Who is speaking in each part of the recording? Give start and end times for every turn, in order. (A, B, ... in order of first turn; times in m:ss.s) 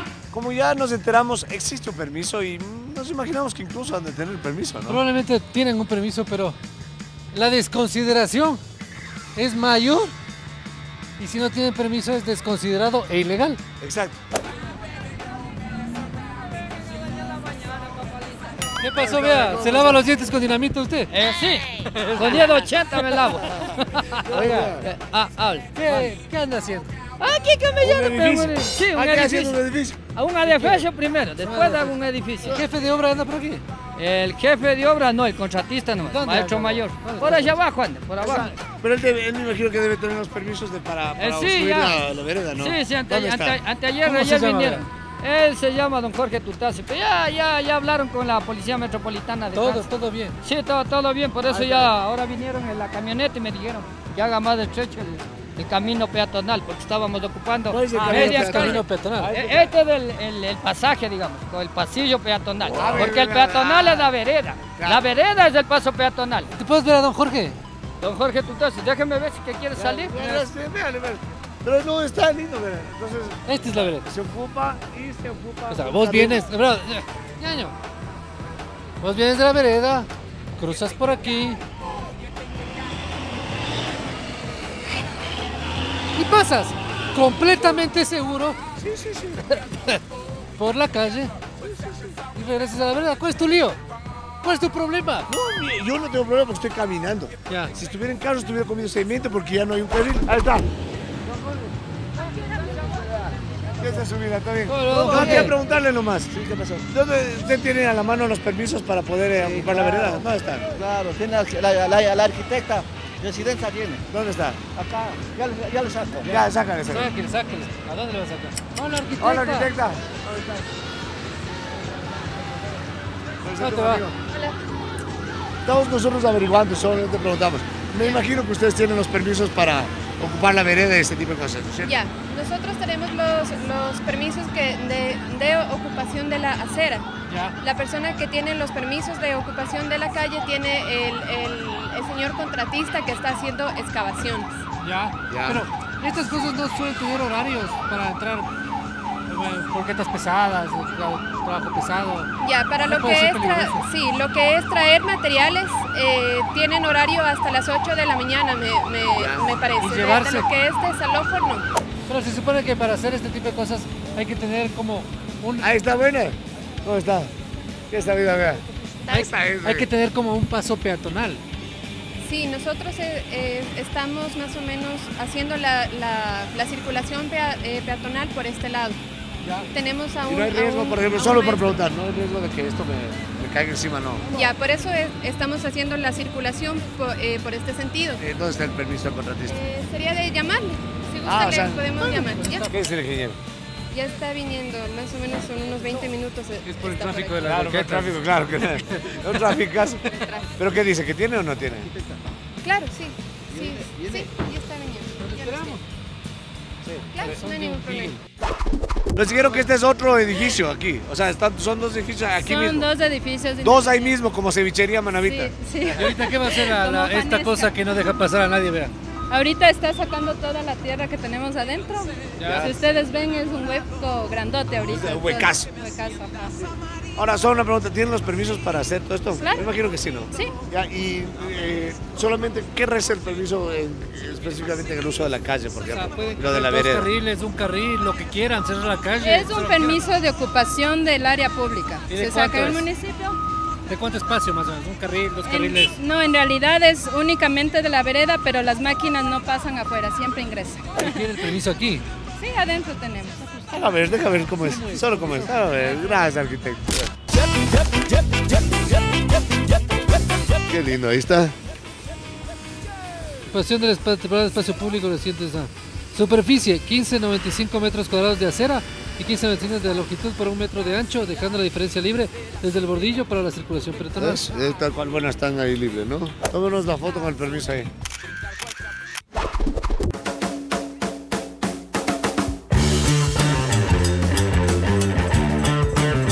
0:00.3-0:05.0 A
0:04.9-0:06.6 B
0:07.3-0:08.6 B
0:09.3-0:10.1 B
0:11.2-0:13.6 B
0:13.8-0:14.2 A
0:16.8-0:18.6 C
0:18.8-0:21.1 B
0:18.9-0:20.0 A
0:21.1-0:26.2 C
0:22.0-0:23.2 B
0:24.3-0:24.9 A
0:24.3-0:24.7 B
0:25.7-0:26.9 B
0:27.2-0:29.6 C
0:27.8-0:30.0 A
0:30.1-0:32.6 C
0:30.4-0:30.8 B
0:31.4-0:33.6 B
0:34.0-0:38.6 C
0:36.0-0:37.6 B
0:38.2-0:43.6 A
0:41.2-1:06.5 C
0:44.0-0:44.8 B
0:49.5-0:50.4 B
0:51.5-0:51.9 A
0:57.7-0:59.7 A
0:58.1-0:59.3 B
1:02.7-1:05.0 A
1:06.5-1:07.6 B
1:08.0-1:10.5 C
1:09.7-1:16.5 A
1:13.4-1:14.0 B
1:15.7-1:17.8 B
1:19.0-1:21.6 B
1:26.1-1:28.6 B
1:28.8-1:29.5 A
1:30.6-1:31.3 B
1:31.6-1:32.2 A
1:32.3-1:33.8 B
1:34.4-1:35.3 B
1:35.3-1:40.7 A
1:37.5-1:37.7 B
1:41.2-1:41.7 A
1:42.8-1:50.8 A
1:44.7-1:45.5 B
1:45.1-1:45.4 C
1:46.3-1:46.8 D
1:49.3-1:54.0 D
1:54.1-1:54.6 A
1:54.7-1:56.4 D
1:56.2-1:57.1 A
1:56.3-1:59.7 B
1:59.2-2:00.7 A
2:03.4-2:04.2 A
2:03.6-2:04.0 B
2:04.3-2:04.6 E
2:05.6-2:11.9 A
2:11.8-2:17.0 E
2:17.3-2:17.6 B
2:17.6-2:24.6 E
2:24.8-2:28.5 B
2:25.3-2:25.6 A
2:29.3-2:32.3 B
2:32.4-2:41.7 E
2:32.8-2:33.8 B
2:39.1-2:39.6 A
2:39.8-2:40.5 B
2:42.1-2:45.7 B
2:45.6-2:47.3 A
2:47.9-2:49.9 A
2:49.1-2:51.4 B
2:52.2-2:59.0 E
2:59.7-3:01.8 E
3:00.3-3:04.3 A
3:04.3-3:08.2 E
3:08.2-3:09.6 A
3:09.4-3:12.7 E
3:11.2-3:12.1 A
3:12.1-3:12.8 B
3:12.6-3:13.4 A
3:13.9-3:17.7 E
3:16.6-3:18.2 B
3:17.4-3:20.0 A
3:20.0-3:20.6 E
3:20.6-3:21.9 A
3:22.6-3:25.8 E
3:23.6-3:24.2 D
3:25.2-3:25.8 B
3:27.1-3:28.2 E
3:27.2-3:28.2 B
3:29.2-3:32.9 A
3:32.4-3:34.2 E
3:33.6-3:35.6 A
3:35.2-3:37.8 E
3:35.9-3:38.9 B
3:39.3-3:46.7 E
3:42.4-3:43.0 B
3:42.4-3:42.8 A
3:44.8-3:45.7 A
3:47.1-3:57.1 A
3:49.3-3:49.7 E
3:55.8-4:00.1 B
3:59.2-4:03.4 E
4:02.1-4:02.9 B
4:03.9-4:06.0 B
4:05.4-4:11.3 E
4:11.0-4:12.0 B
4:12.4-4:14.1 E
4:13.7-4:17.1 A
4:14.5-4:16.3 B
4:20.6-4:21.6 A
4:23.5-4:34.4 B
4:34.2-4:37.9 A